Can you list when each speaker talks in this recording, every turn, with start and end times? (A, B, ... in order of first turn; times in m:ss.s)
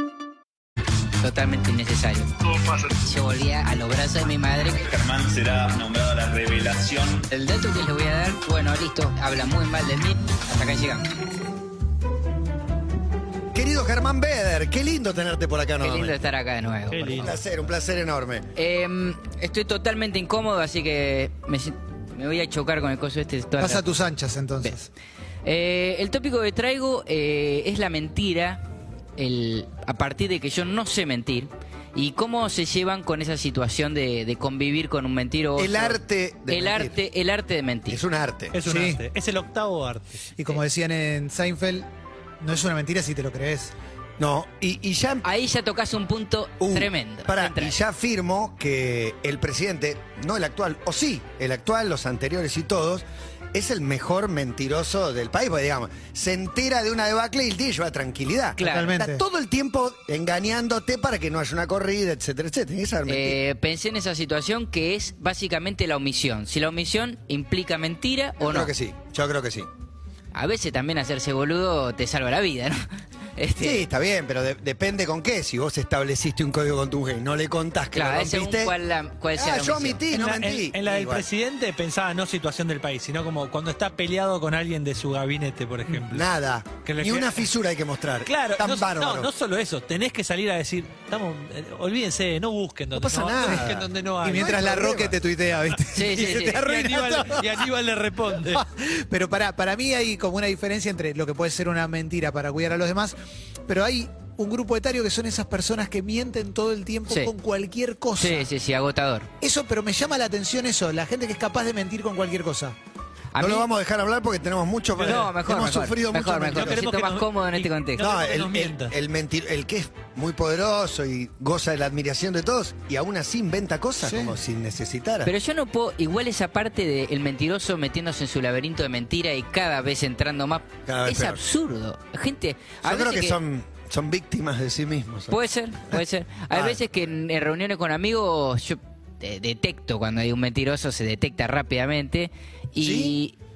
0:01.2-0:04.9 A
0:04.9-0:07.2 B
0:07.3-0:11.1 A
0:13.5-0:16.2 C
0:15.8-0:17.3 A
0:16.9-0:17.4 D
0:17.2-0:18.4 C
0:18.6-0:23.9 A
0:23.6-0:24.9 E
0:25.4-0:28.6 A
0:29.2-0:38.0 A
0:35.6-0:36.9 C
0:37.9-0:38.5 C
0:38.5-0:40.6 D
0:38.6-0:39.0 E
0:40.4-0:41.9 E
0:42.4-0:43.7 E
0:44.2-0:45.2 C
0:45.2-0:47.7 A
0:46.6-1:03.4 C
0:58.6-0:58.9 A
0:58.6-0:59.2 E
1:03.1-1:08.7 A
1:08.4-1:09.7 C
1:10.3-1:12.8 A
1:13.4-1:13.8 A
1:13.6-1:18.7 C
1:17.9-1:20.0 A
1:19.3-1:21.2 C
1:20.1-1:26.3 D
1:26.0-1:29.3 C
1:26.8-1:27.5 D
1:28.2-1:34.6 D
1:32.9-1:35.2 C
1:33.4-1:37.6 E
1:35.9-1:36.6 A
1:36.2-1:38.6 D
1:38.4-1:43.1 E
1:43.7-1:48.5 E
1:48.2-1:49.3 A
1:49.4-1:52.7 E
1:53.3-1:53.7 A
1:53.4-1:56.8 C
1:55.0-1:55.3 D
1:55.0-1:58.0 A
1:56.4-1:58.9 D
1:58.0-2:05.3 C
2:04.0-2:04.4 E
2:05.2-2:13.4 A
2:10.8-2:11.4 C
2:12.8-2:15.4 C
2:15.3-2:23.3 A
2:15.9-2:16.8 C
2:22.8-2:23.2 C